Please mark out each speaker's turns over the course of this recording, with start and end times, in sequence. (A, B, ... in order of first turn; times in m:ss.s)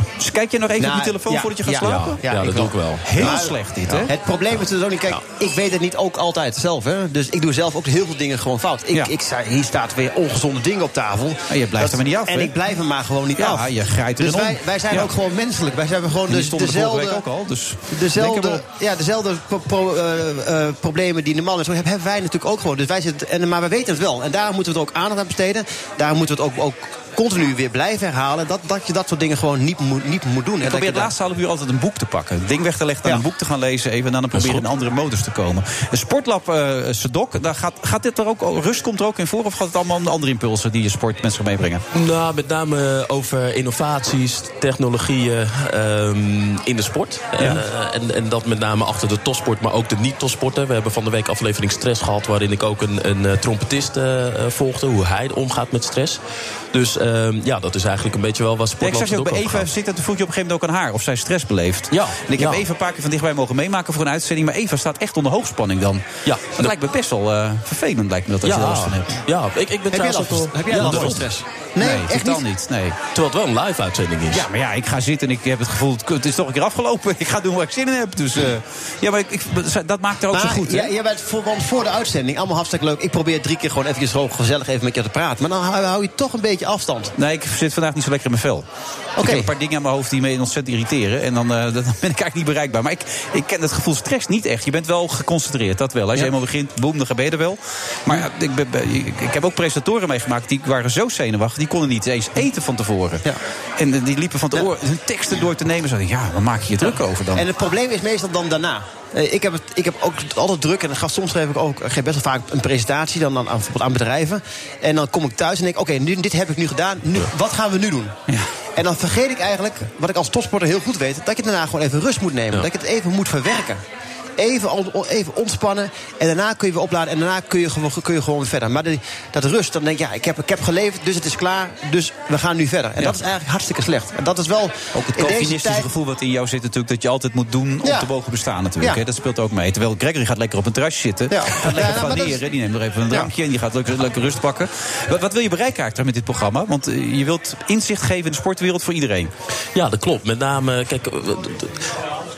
0:00.2-0:02.2 A
0:00.8-0:17.2 B
0:01.8-0:03.3 C
0:03.0-0:04.1 A
0:11.5-0:12.5 A
0:13.4-0:15.1 A
0:16.3-0:18.6 A
0:17.9-0:31.1 B
0:30.6-0:41.8 A
0:34.3-0:34.6 C
0:41.9-0:56.2 C
0:56.7-0:59.7 C
0:58.8-1:09.2 A
1:01.9-1:02.6 C
1:06.2-1:06.7 C
1:08.4-1:11.3 C
1:09.9-1:12.4 B
1:10.7-1:11.3 A
1:11.8-1:13.0 A
1:13.1-1:14.4 C
1:14.3-1:20.9 A
1:20.3-1:27.1 B
1:27.2-1:28.6 A
1:29.2-1:29.5 B
1:29.2-1:43.2 A
1:43.8-1:47.4 A
1:47.3-1:58.1 B
1:58.8-2:03.8 B
2:04.4-2:15.9 B
2:14.9-2:29.3 A
2:17.8-2:18.1 B
2:21.3-2:22.4 B
2:29.7-2:31.8 C